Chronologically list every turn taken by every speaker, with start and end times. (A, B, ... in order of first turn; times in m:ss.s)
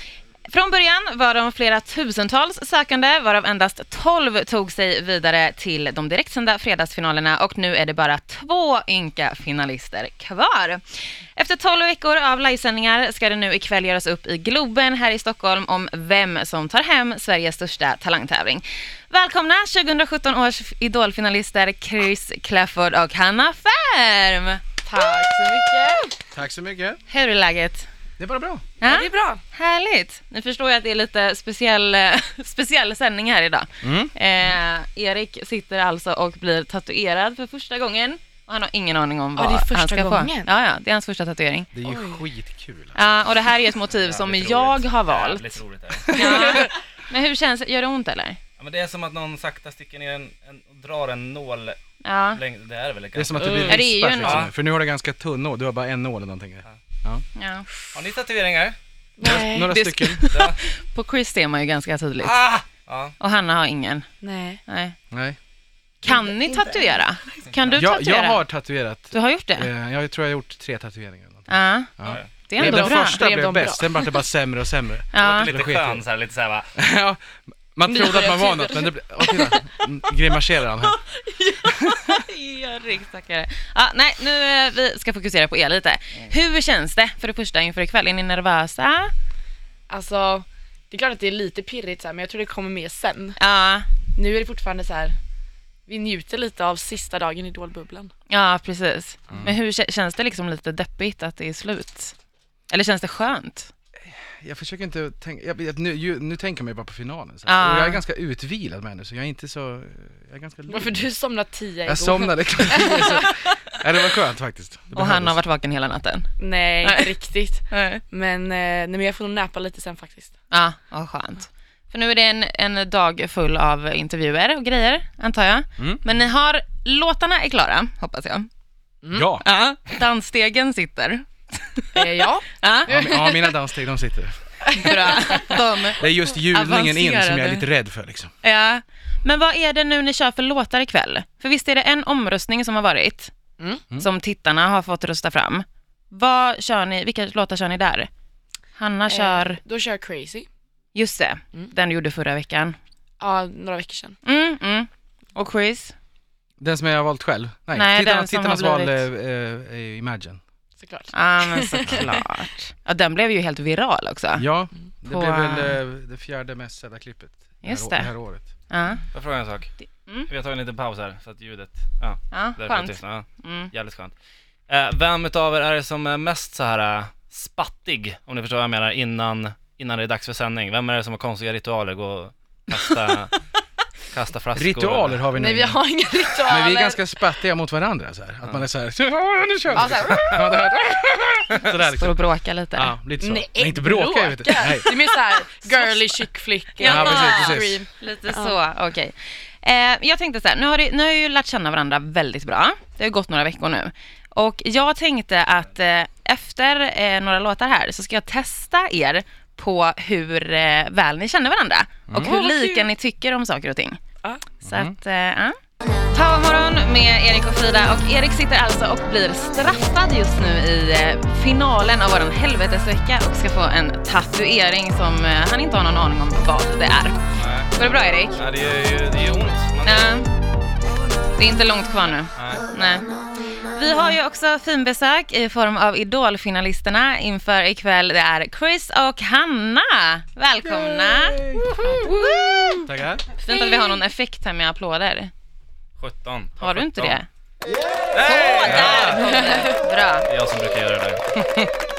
0:00.5-0:10.8 A
0:11.4-0:24.6 A
0:24.8-0:26.2 B
0:26.3-0:27.0 C
0:27.1-0:27.9 A
0:28.2-0:28.7 C
0:28.8-0:41.7 A
0:28.8-0:29.4 B
0:33.8-0:34.1 C
0:39.4-0:40.5 B
0:41.7-0:43.2 C
0:41.8-0:42.2 B
0:42.9-0:45.5 A
0:43.8-0:46.2 D
0:46.1-0:48.4 A
0:46.2-0:46.7 B
0:48.6-0:51.8 D
0:52.0-0:52.4 A
0:52.3-0:54.5 D
0:53.1-0:57.2 C
0:53.4-0:53.8 B
0:53.6-0:54.5 A
0:57.3-0:57.7 A
0:57.9-0:58.8 D
0:59.2-0:59.8 B
0:59.2-1:00.3 C
0:59.4-1:02.4 A
1:00.3-1:00.6 D
1:02.2-1:03.2 D
1:03.2-1:04.0 A
1:04.2-1:04.6 B
1:04.7-1:04.9 A
1:05.1-1:05.4 C
1:06.0-1:08.4 A
1:06.0-1:06.9 B
1:07.5-1:07.8 D
1:07.7-1:16.0 C
1:09.1-1:09.7 A
1:11.5-1:11.9 A
1:12.0-1:12.3 D
1:12.4-1:13.2 A
1:12.6-1:14.2 B
1:15.1-1:15.5 A
1:15.2-1:16.7 D
1:16.7-1:17.2 C
1:17.7-1:21.0 C
1:17.8-1:19.8 B
1:20.9-1:22.3 B
1:22.0-1:29.1 A
1:29.9-1:33.4 B
1:33.4-1:33.9 A
1:34.1-1:35.2 B
1:35.9-1:38.1 B
1:38.3-1:42.1 A
1:39.3-1:39.6 C
1:42.7-1:43.7 A
1:44.1-1:51.0 C
1:47.4-1:48.0 A
1:50.7-1:53.3 B
1:51.8-1:55.4 C
1:54.9-1:56.3 A
1:56.4-2:00.3 B
1:56.8-1:57.1 A
1:57.7-1:58.0 A
2:00.5-2:08.5 A
2:05.8-2:06.0 C
2:09.1-2:09.5 C
2:09.4-2:12.0 A
2:11.9-2:13.5 B
2:12.5-2:13.1 A
2:12.8-2:15.3 C
2:14.6-2:15.6 B
2:14.8-2:17.6 A
2:16.0-2:18.3 C
2:18.4-2:23.3 A
2:24.0-2:28.1 A
2:28.8-2:29.6 A
2:29.1-2:30.5 B
2:30.9-2:32.8 A
2:33.2-2:34.2 B
2:34.2-2:35.9 A
2:36.6-2:40.4 C
2:37.7-2:39.0 A
2:40.8-2:42.2 B
2:41.1-2:44.4 A
2:44.4-2:48.5 C
2:45.0-2:45.8 A
2:47.6-2:48.1 A
2:48.7-2:49.0 A
2:49.1-2:49.7 D
2:50.3-2:54.1 D
2:52.3-2:53.7 A
2:54.7-3:03.4 D
3:04.1-3:05.2 D
3:04.5-3:05.8 C
3:05.3-3:07.0 B
3:06.4-3:12.2 C
3:09.7-3:10.7 B
3:11.9-3:12.9 A
3:12.7-3:14.9 C
3:13.2-3:18.6 B
3:15.7-3:15.9 A
3:16.8-3:34.0 A
3:16.8-3:17.8 C
3:32.1-3:32.3 C
3:32.2-3:32.9 B
3:34.2-3:34.5 B
3:34.6-3:35.6 A
3:34.6-3:34.9 C
3:36.1-3:47.2 A
3:47.3-3:47.7 D
3:47.7-3:48.4 A
3:48.3-3:50.1 D
3:49.8-3:50.3 A
3:51.4-3:53.1 A
3:52.4-3:52.6 D
3:53.7-4:01.4 A
4:00.6-4:02.2 C
4:01.8-4:02.9 B
4:02.8-4:03.2 C
4:03.4-4:05.3 A
4:03.5-4:04.0 B
4:06.0-4:07.2 D
4:06.6-4:07.3 A
4:08.1-4:09.3 D
4:08.2-4:10.3 A
4:08.6-4:09.1 C
4:09.2-4:09.7 B
4:10.3-4:11.7 D